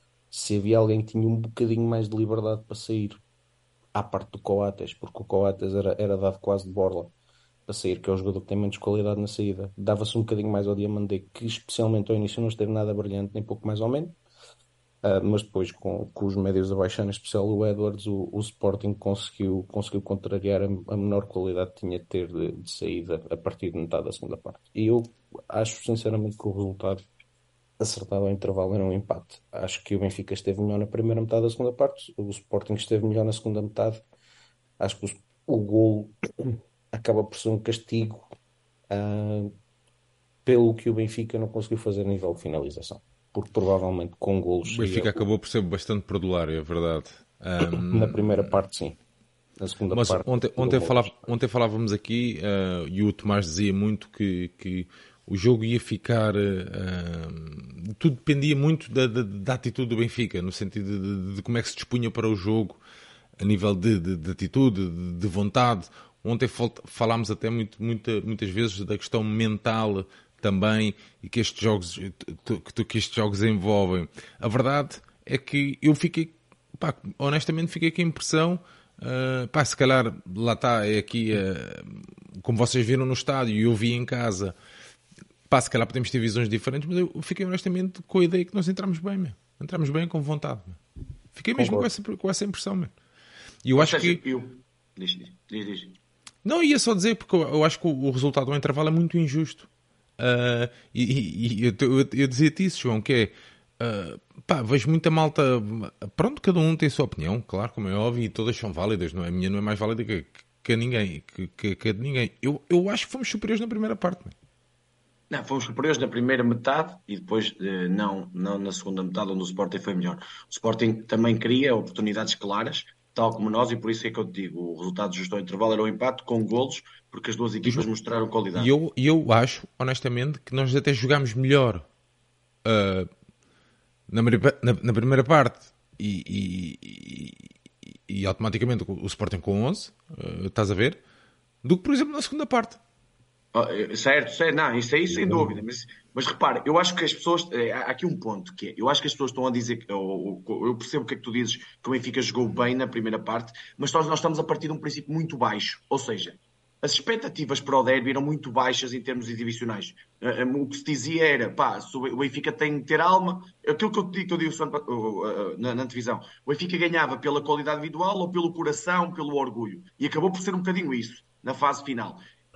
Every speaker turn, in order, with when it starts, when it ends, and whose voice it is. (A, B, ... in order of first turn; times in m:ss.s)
0:00.3-0:03.2 A
0:03.9-0:07.1 A
0:07.7-0:14.2 A
0:15.0-0:27.0 A
0:27.8-0:34.0 A
0:34.8-0:38.3 A
0:38.9-0:39.5 A
0:40.4-0:45.2 A
0:44.6-0:48.6 B
0:47.6-0:49.0 A
0:49.6-0:51.3 A
0:49.9-1:02.8 B
1:03.4-1:24.5 B
1:25.5-1:30.8 B
1:31.3-1:32.9 B
1:31.6-1:31.9 A
1:33.6-1:34.2 B
1:33.7-1:36.0 C
1:36.4-1:39.7 B
1:40.2-1:54.3 B
1:55.3-2:08.7 C
2:08.5-2:11.8 B
2:12.6-2:13.1 B
2:14.1-2:17.5 B
2:18.1-2:21.0 B
2:21.6-2:22.8 B
2:23.5-2:52.2 C
2:25.1-2:25.6 A